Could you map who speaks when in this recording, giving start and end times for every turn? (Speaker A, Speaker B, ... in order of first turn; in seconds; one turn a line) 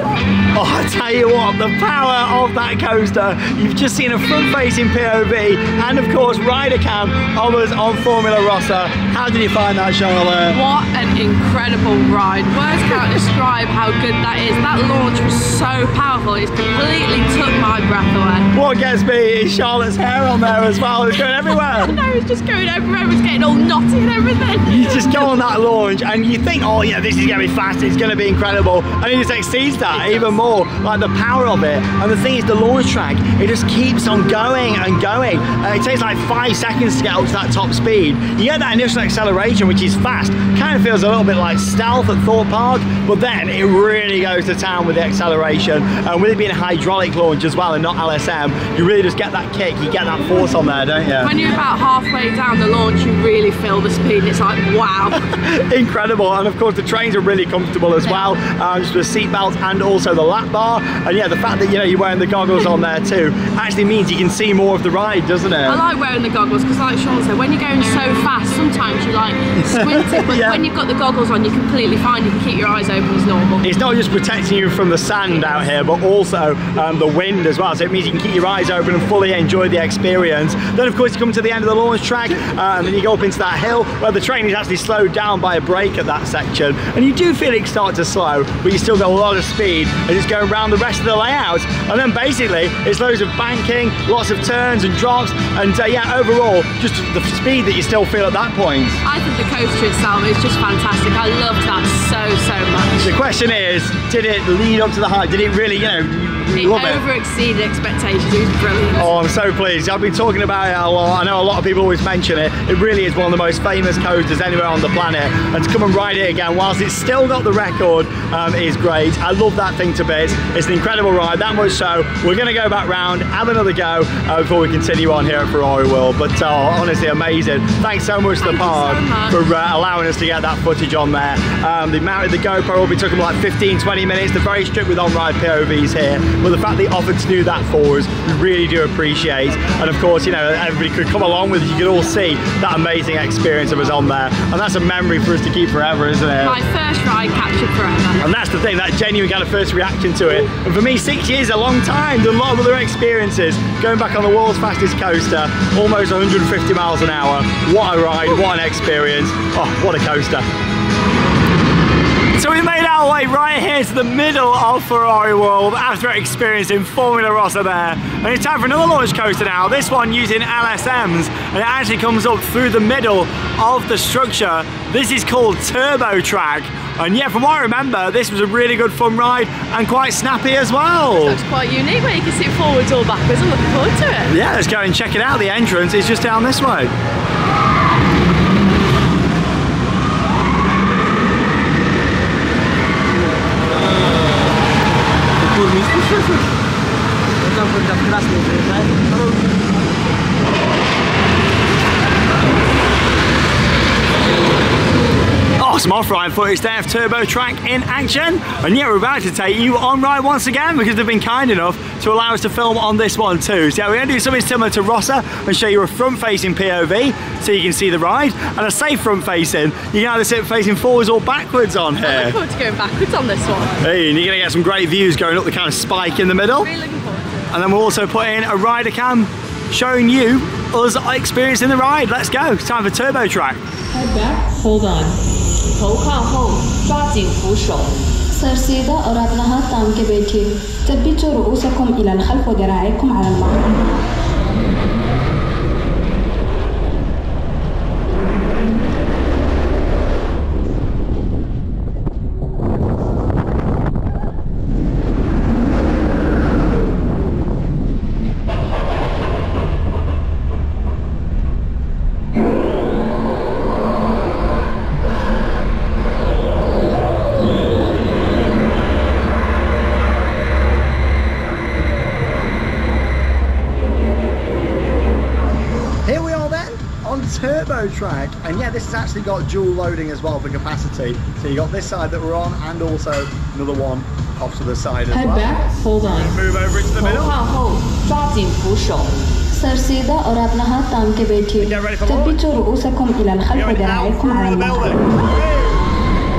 Speaker A: 0.6-10.6
Speaker B: 10.5-18.5
Speaker A: 18.5-22.0
Speaker B: 21.7-25.4
Speaker A: 24.7-51.3
Speaker B: 29.9-30.4
Speaker B: 51.2-55.2
Speaker A: 55.1-65.8
Speaker B: 58.0-58.3
Speaker B: 65.7-73.7
Speaker A: 69.6-70.6
Speaker A: 73.6-99.0
Speaker B: 99.0-103.1
Speaker A: 103.0-107.0
Speaker B: 106.5-109.1
Speaker A: 109.0-146.6
Speaker B: 128.4-129.4
Speaker B: 146.4-148.3
Speaker A: 148.2-160.5
Speaker A: 162.3-181.4
Speaker B: 181.1-184.3
Speaker A: 184.3-186.9
Speaker A: 195.4-196.3
Speaker A: 197.5-199.4
Speaker A: 205.6-222.4
Speaker B: 222.0-223.8
Speaker A: 223.8-226.7
Speaker B: 226.6-227.5
Speaker A: 227.5-233.6
Speaker C: 233.9-235.2
Speaker C: 235.8-237.9
Speaker D: 238.3-243.8
Speaker A: 276.1-287.4
Speaker C: 285.1-286.4
Speaker C: 287.0-289.1
Speaker D: 289.5-295.2
Speaker A: 291.6-292.4
Speaker A: 293.5-295.7